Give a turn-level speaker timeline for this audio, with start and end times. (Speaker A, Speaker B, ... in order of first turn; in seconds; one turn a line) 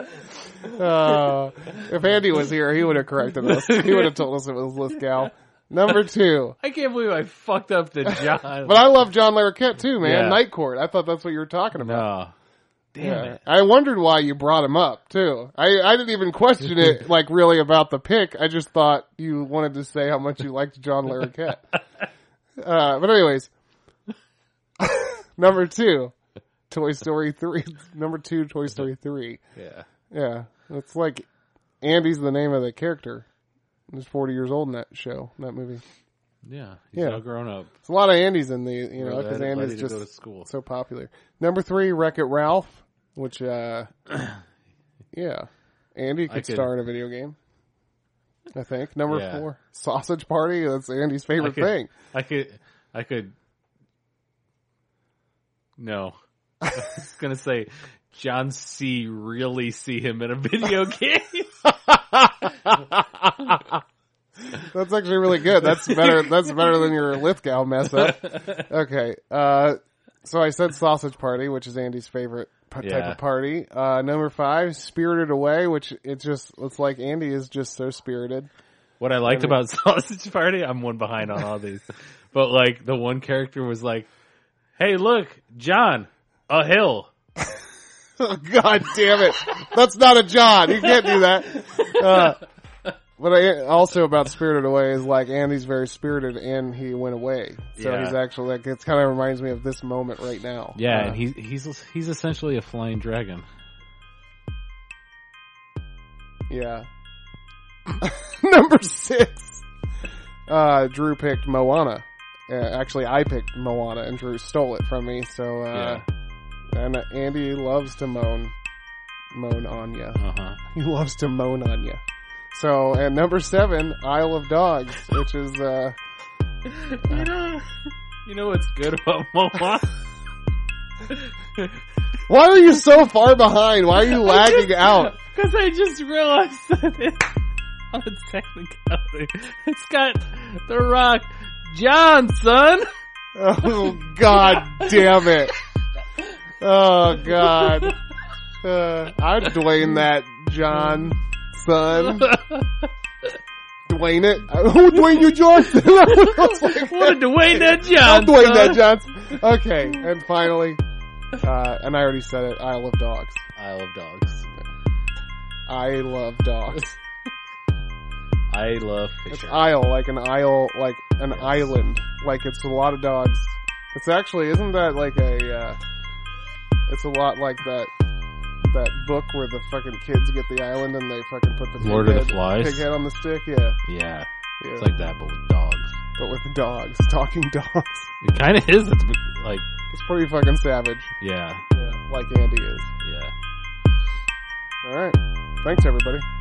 Speaker A: 0.6-6.6
Speaker B: 3.4-4.2
Speaker B: 6.6-8.9
Speaker A: 8.1-12.1
Speaker B: 10.0-10.4
Speaker B: 11.8-12.3
Speaker B: 12.9-13.4
Speaker A: 13.0-21.6
Speaker A: 22.6-23.5
Speaker A: 24.8-26.1
Speaker A: 26.7-29.4
Speaker B: 29.6-29.9
Speaker A: 30.1-31.3
Speaker A: 31.8-33.3
Speaker A: 33.9-35.8
Speaker B: 36.5-37.7
Speaker A: 37.0-37.2
Speaker A: 37.8-43.9
Speaker B: 39.0-40.5
Speaker A: 45.1-47.4
Speaker B: 46.3-46.7
Speaker A: 48.5-51.9
Speaker B: 49.1-49.5
Speaker B: 51.4-53.3
Speaker B: 55.8-56.2
Speaker B: 56.7-63.6
Speaker A: 64.5-78.5
Speaker B: 65.8-66.4
Speaker B: 68.0-68.6
Speaker B: 72.8-73.2
Speaker B: 79.0-84.1
Speaker A: 79.2-79.6
Speaker B: 84.8-87.1
Speaker A: 88.2-92.4
Speaker B: 91.7-92.3
Speaker A: 93.2-101.2
Speaker B: 97.8-98.2
Speaker B: 100.8-103.5
Speaker A: 106.5-106.9
Speaker A: 108.0-109.7
Speaker A: 110.5-116.0
Speaker B: 115.7-116.0
Speaker A: 116.7-118.5
Speaker A: 119.3-122.0
Speaker B: 120.2-120.6
Speaker A: 122.5-126.0
Speaker B: 126.7-130.0
Speaker B: 131.1-131.8
Speaker A: 132.3-135.1
Speaker B: 134.1-137.3
Speaker B: 137.9-142.9
Speaker A: 143.3-145.5
Speaker B: 144.3-145.5
Speaker A: 146.6-148.0
Speaker B: 147.3-148.0
Speaker A: 148.6-152.4
Speaker B: 152.0-153.3
Speaker A: 153.9-160.8
Speaker B: 154.9-159.4
Speaker A: 161.4-163.4
Speaker B: 163.6-164.5
Speaker A: 165.7-167.0
Speaker B: 168.5-169.7
Speaker A: 169.3-175.8
Speaker B: 171.3-171.7
Speaker A: 176.9-177.9
Speaker A: 178.6-183.8
Speaker B: 181.8-182.9
Speaker B: 183.9-186.0
Speaker A: 184.6-184.9
Speaker A: 186.2-188.1
Speaker B: 188.2-189.7
Speaker A: 189.9-191.1
Speaker B: 191.2-191.6
Speaker A: 191.7-192.9
Speaker B: 193.0-193.3
Speaker A: 194.8-196.3